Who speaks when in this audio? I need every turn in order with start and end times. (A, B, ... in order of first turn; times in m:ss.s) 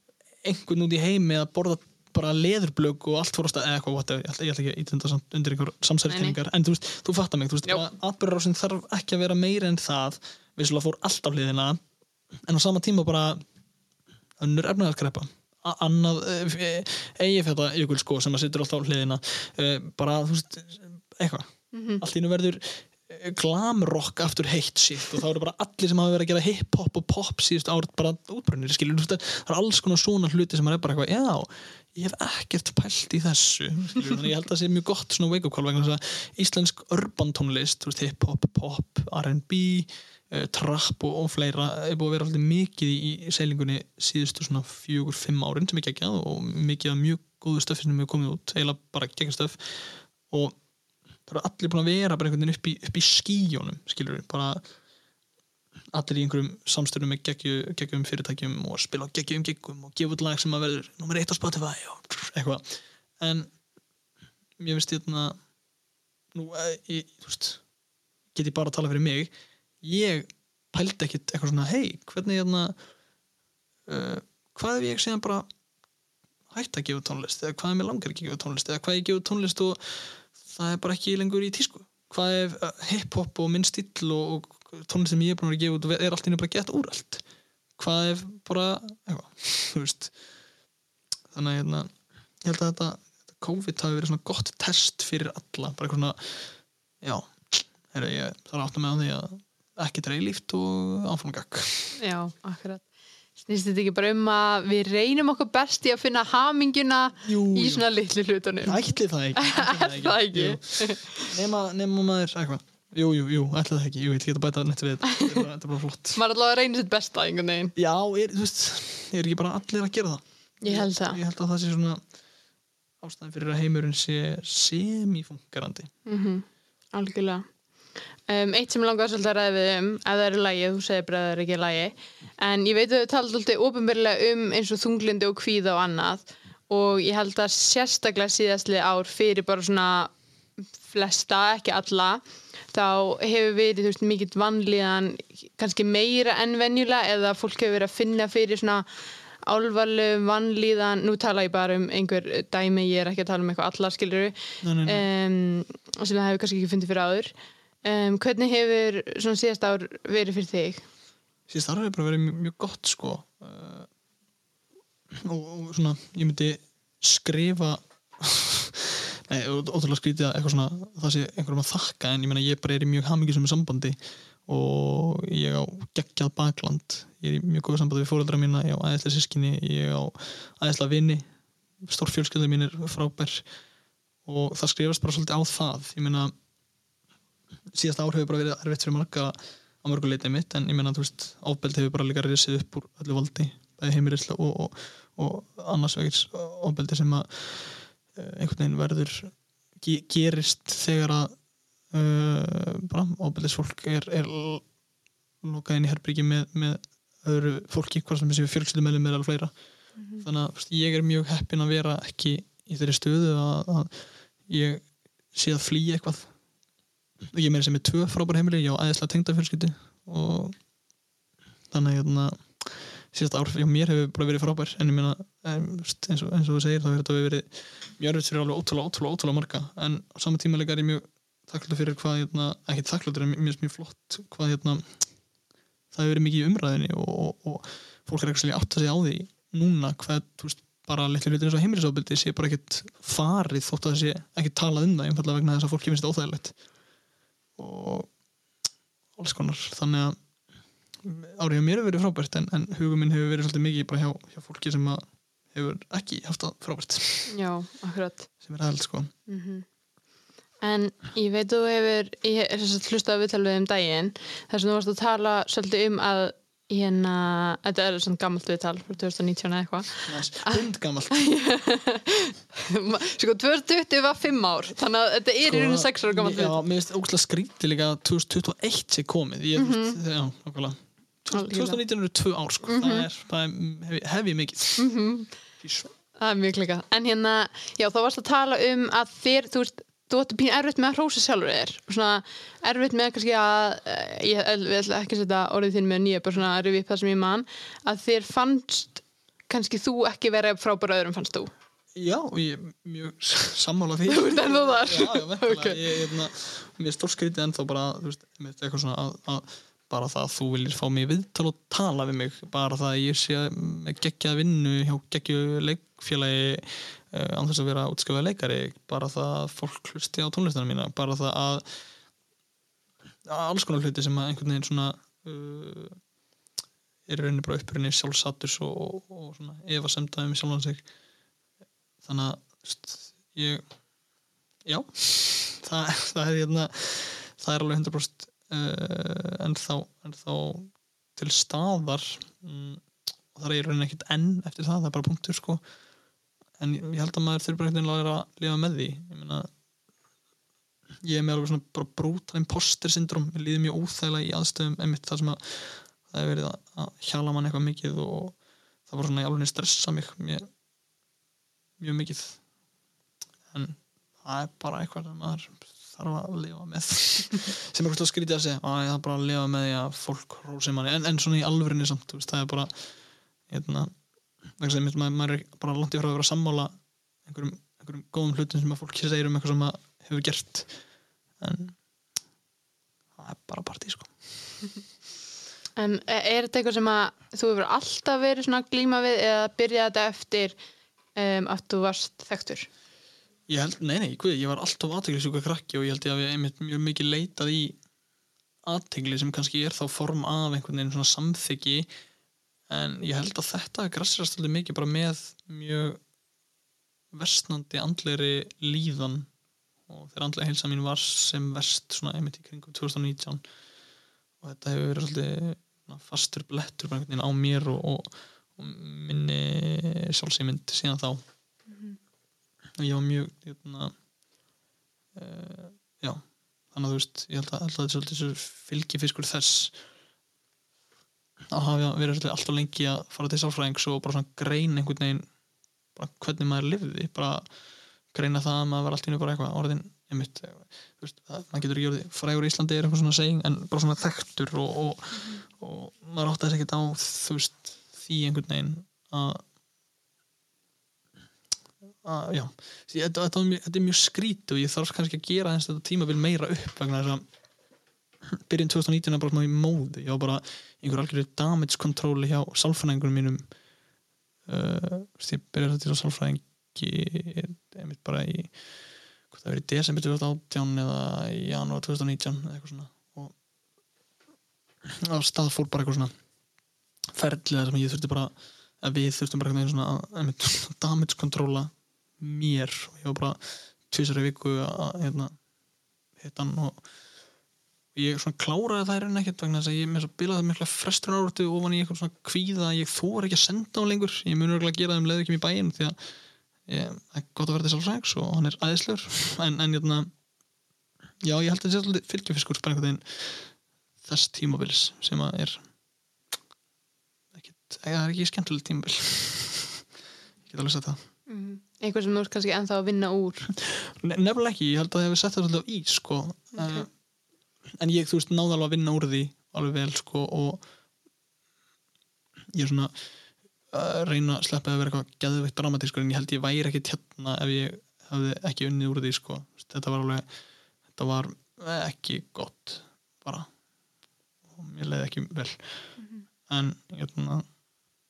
0:00.4-0:11.8 A
0:06.1-0:06.4 B
0:12.4-0:13.4 A
0:14.4-0:50.6 A
0:21.7-0:22.0 B
0:51.3-0:54.6 A
0:55.9-1:03.5 A
1:04.6-1:05.4 A
1:06.3-1:07.6 A
1:08.3-1:12.8 A
1:13.9-1:15.5 A
1:16.5-1:27.2 A
1:27.8-1:30.1 A
1:31.3-1:31.9 A
1:32.4-1:42.0 A
1:42.0-1:42.8 B
1:43.4-1:48.8 B
1:47.2-1:47.8 A
1:48.6-1:56.2 A
1:49.4-1:51.3 B
1:55.1-1:55.4 B
1:56.2-1:57.8 B
1:57.8-2:02.0 A
2:00.6-2:01.2 B
2:03.0-2:05.9 A
2:06.1-2:07.5 B
2:08.3-2:20.1 B
2:20.8-2:22.2 B
2:22.7-2:28.9 B
2:29.4-2:37.3 B
2:34.6-2:35.0 A
2:37.8-2:40.9 B
2:41.5-2:43.9 A
2:45.1-3:01.2 A
3:01.8-3:03.4 A
3:04.3-3:06.3 A
3:07.7-3:21.3 A
3:21.9-3:24.6 A
3:25.4-3:29.5 A
3:30.0-3:30.2 B
3:30.2-3:33.9 A
3:34.5-3:36.3 A
3:37.3-3:40.6 A
3:41.7-3:55.0 A
3:55.9-4:06.6 A
4:07.6-4:08.1 A
4:09.2-4:10.2 A
4:11.0-4:17.3 A
4:17.3-4:18.3 B
4:18.4-4:19.1 A
4:19.3-4:19.6 B
4:20.6-4:36.6 B
4:30.1-4:31.2 A
4:35.4-4:44.9 A
4:39.6-4:40.0 B
4:41.3-4:41.8 B
4:42.6-4:43.1 B
4:44.8-4:45.3 B
4:45.6-4:45.9 A
4:46.2-5:01.5 B
5:02.0-5:21.6 A
5:04.1-5:06.1 B
5:23.3-5:26.0 A
5:27.1-5:30.8 A
5:32.0-5:33.6 A
5:34.6-5:45.6 A
5:46.6-5:49.5 A
5:51.0-6:00.5 A
6:01.8-6:02.4 A
6:03.5-6:12.7 A
6:13.5-6:13.9 A
6:14.6-6:16.7 A
6:17.2-6:20.7 A
6:21.4-6:21.8 A
6:23.2-6:24.1 A
6:25.8-6:30.6 B
6:31.2-6:32.7 B
6:33.5-6:37.8 A
6:38.6-6:41.9 A
6:42.7-6:46.0 A
6:47.1-6:49.3 A
6:49.9-6:53.4 A
6:54.4-7:01.2 A
7:01.7-7:02.0 B
7:02.8-7:03.9 A
7:05.1-7:09.8 A
7:11.5-7:15.3 A
7:16.0-7:17.4 A
7:18.1-7:29.4 A
7:25.1-7:25.4 B
7:32.0-7:37.2 A
7:38.3-7:43.4 A
7:44.5-7:48.6 A
7:49.3-7:53.4 A
7:54.8-7:56.1 A
7:57.1-8:05.3 A
8:06.2-8:06.8 A
8:08.0-8:16.0 A
8:16.7-8:20.1 A
8:21.2-8:23.5 A
8:24.0-8:25.6 A
8:27.4-8:29.8 A
8:30.5-8:31.0 A
8:31.3-8:33.5 B
8:33.6-8:36.9 A
8:36.5-8:36.9 B
8:37.8-8:40.6 A
8:42.5-8:42.9 A
8:43.7-8:50.3 A
8:50.9-8:53.5 A
8:54.5-8:55.6 A
8:56.0-8:56.2 B
8:56.5-8:57.4 A